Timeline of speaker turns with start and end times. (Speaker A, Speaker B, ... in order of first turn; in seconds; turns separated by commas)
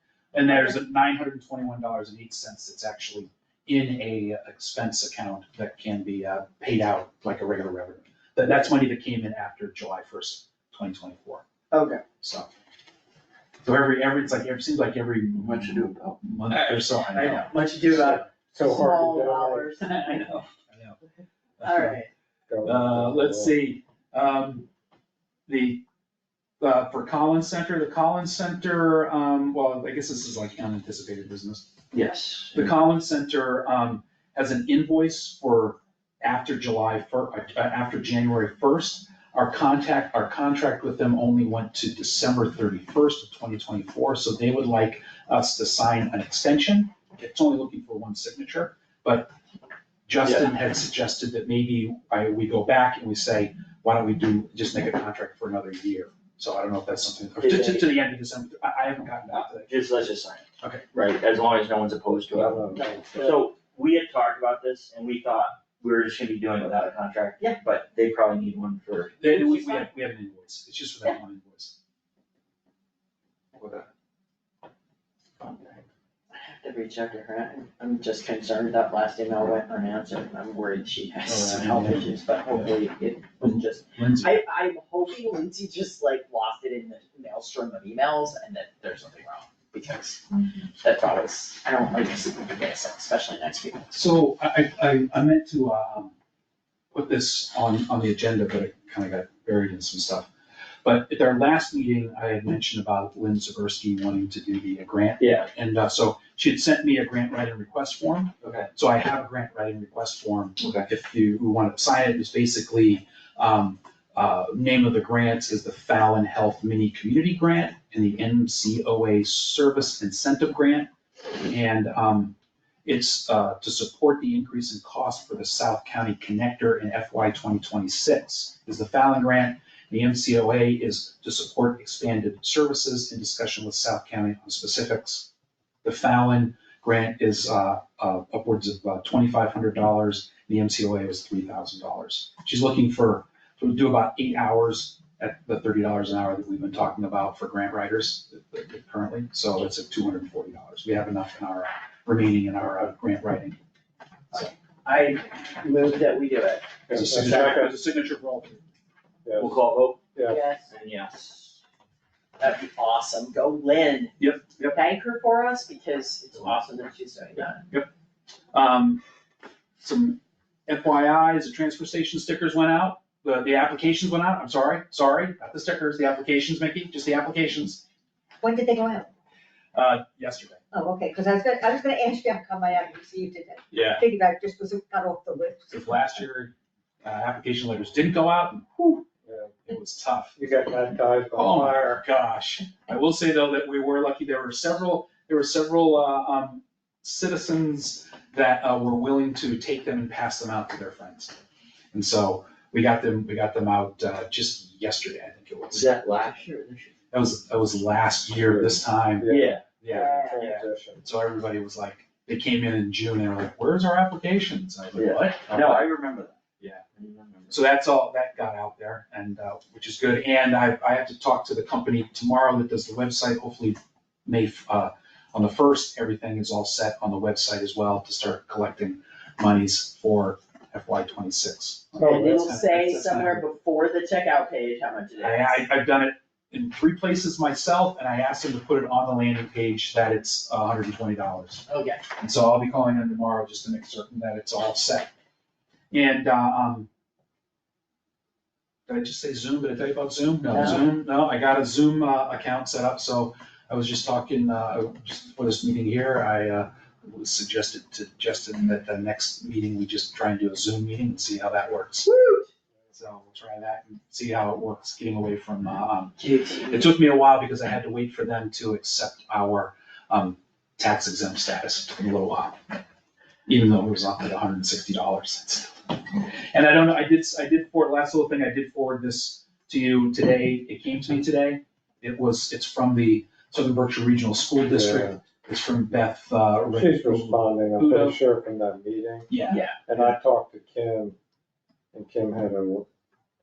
Speaker A: 0.3-11.4, Speaker B: 0.5-0.8, Speaker B: 11.7-12.0, Speaker A: 12.2-12.5, Speaker A: 13.6-18.2, Speaker C: 15.4-17.7, Speaker B: 17.1-20.5, Speaker D: 18.3-19.7, Speaker A: 19.8-21.0, Speaker A: 21.6-22.0, Speaker B: 21.6-22.1, Speaker D: 22.5-23.5, Speaker A: 22.6-24.7, Speaker A: 25.5-25.9, Speaker A: 26.6-31.7, Speaker C: 31.9-32.7, Speaker A: 32.5-49.3, Speaker A: 50.1-60.0, Speaker C: 57.4-57.9, Speaker C: 59.3-62.7, Speaker D: 62.3-63.2, Speaker B: 62.7-63.5, Speaker C: 63.2-69.2, Speaker A: 69.2-71.8, Speaker B: 69.2-69.9, Speaker C: 73.6-73.8, Speaker B: 76.3-93.9, Speaker A: 81.3-82.7, Speaker A: 83.4-84.4, Speaker A: 93.9-96.1, Speaker A: 96.9-100.3, Speaker A: 100.8-120.9, Speaker C: 105.2-105.5, Speaker C: 108.4-108.7, Speaker C: 110.6-110.9, Speaker A: 121.5-135.3, Speaker A: 135.8-153.6, Speaker B: 154.8-157.7, Speaker D: 156.9-157.7, Speaker A: 156.9-158.6, Speaker D: 159.2-159.6, Speaker C: 159.4-160.0, Speaker D: 160.1-160.4, Speaker B: 160.2-160.7, Speaker C: 160.7-161.6, Speaker B: 162.4-164.1, Speaker A: 164.2-164.8, Speaker B: 164.7-167.7, Speaker A: 168.5-169.0, Speaker A: 169.8-177.8, Speaker E: 178.4-179.1, Speaker A: 179.7-180.6, Speaker E: 180.7-185.7, Speaker C: 183.7-184.0, Speaker A: 185.7-189.1, Speaker D: 189.3-189.5, Speaker A: 189.7-190.4, Speaker D: 190.4-192.0, Speaker A: 191.3-201.4, Speaker A: 201.9-206.0, Speaker C: 205.7-206.9, Speaker A: 207.1-210.4, Speaker D: 208.4-211.0, Speaker C: 209.3-209.6, Speaker B: 209.9-210.5, Speaker A: 211.0-216.0, Speaker C: 214.9-217.6, Speaker A: 217.5-233.4, Speaker D: 232.0-232.4, Speaker B: 232.0-235.6, Speaker A: 235.2-241.7, Speaker B: 241.7-242.1, Speaker A: 242.2-245.1, Speaker A: 245.9-246.9, Speaker A: 248.9-262.1, Speaker B: 250.5-250.8, Speaker B: 262.1-262.5, Speaker A: 262.9-272.8, Speaker B: 266.2-266.9, Speaker A: 273.5-288.2, Speaker D: 284.7-285.2, Speaker D: 286.7-289.3, Speaker A: 289.3-289.6, Speaker B: 289.5-289.8, Speaker D: 289.9-291.2, Speaker D: 291.9-292.9